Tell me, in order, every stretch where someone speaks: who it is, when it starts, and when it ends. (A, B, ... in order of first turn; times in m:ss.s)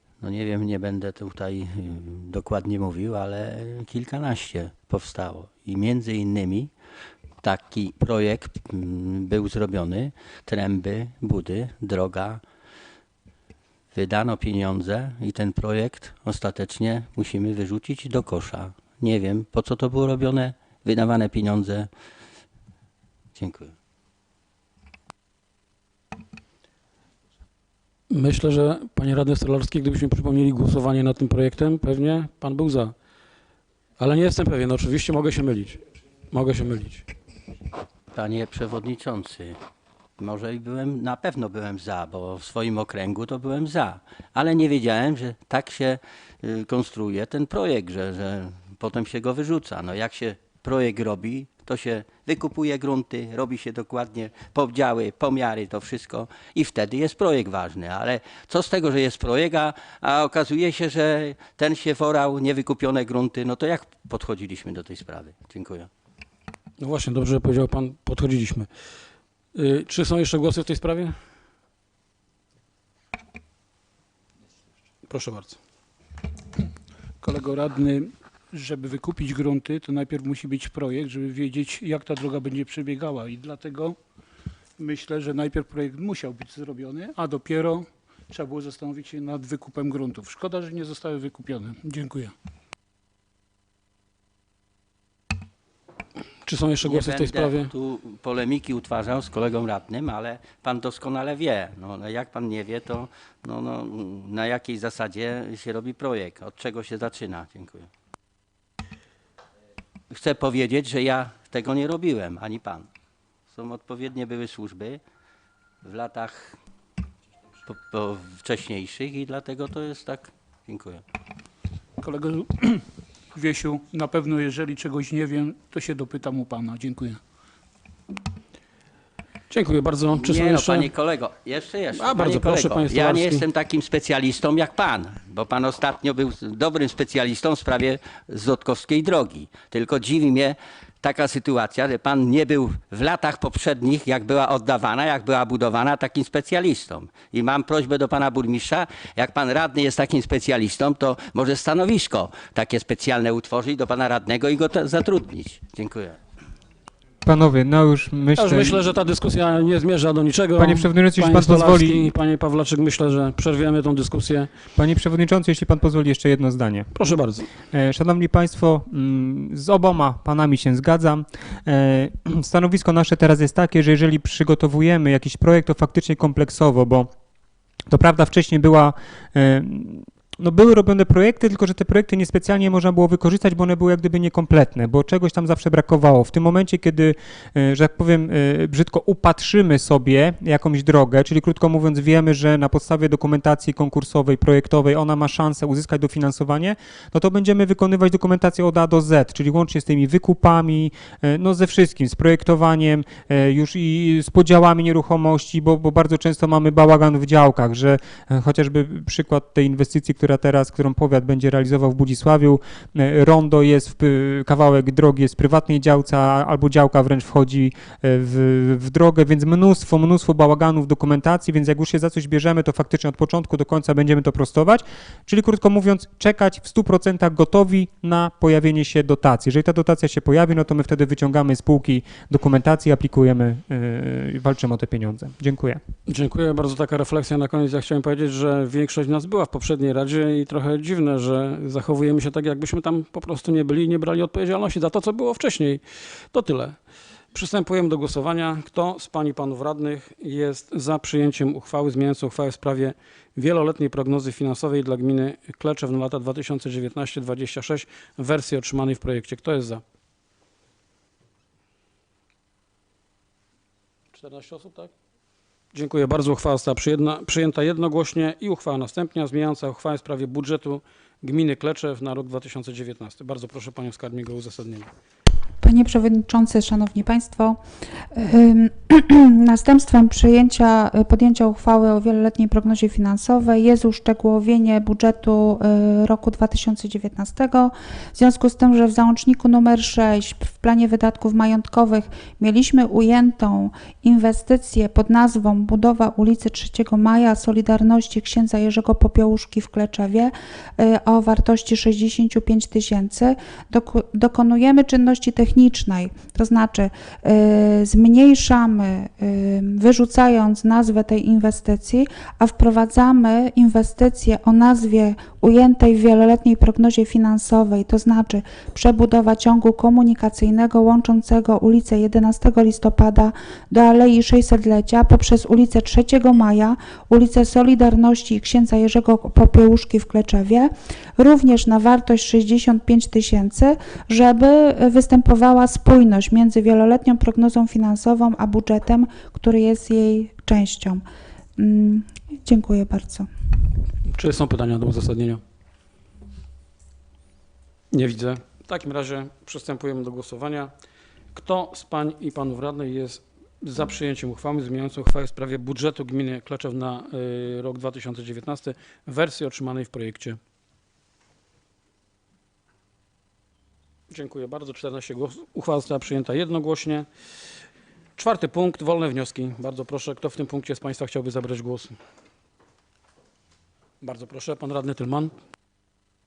0:00.2-0:06.7 A
0:07.4-0:12.4 A
0:13.9-0:21.9 A
0:23.4-0:23.7 A
0:28.1-0:32.9 B
0:34.0-0:37.1 B
0:38.1-0:39.6 A
0:40.2-1:05.9 A
1:06.8-1:08.7 B
1:09.5-1:11.2 B
1:15.1-1:15.6 B
1:17.2-1:24.0 C
1:24.8-1:32.3 C
1:36.4-1:37.7 B
1:36.8-1:47.9 A
1:50.1-1:52.9 A
1:53.5-1:55.0 A
1:55.8-1:56.6 A
1:57.6-2:01.0 A
2:02.0-2:07.2 C
2:09.5-2:10.9 B
2:10.2-2:36.2 A
2:11.9-2:13.4 B
2:37.2-2:38.8 D
2:38.4-2:44.5 B
2:40.6-2:42.1 D
2:44.8-2:46.9 D
2:46.9-2:47.5 B
2:47.7-2:57.1 D
2:57.9-3:55.8 D
3:56.1-4:06.8 B
4:07.3-4:19.8 B
4:24.1-4:24.9 B
4:25.7-4:34.9 B
4:35.6-4:37.6 E
4:38.1-5:41.0 E
5:41.6-5:43.3 E
5:44.1-5:45.4 B
5:47.9-5:50.7 B
5:51.3-6:00.4 B
6:04.1-6:07.1 B
6:08.2-6:12.0 B
6:14.0-6:15.3 B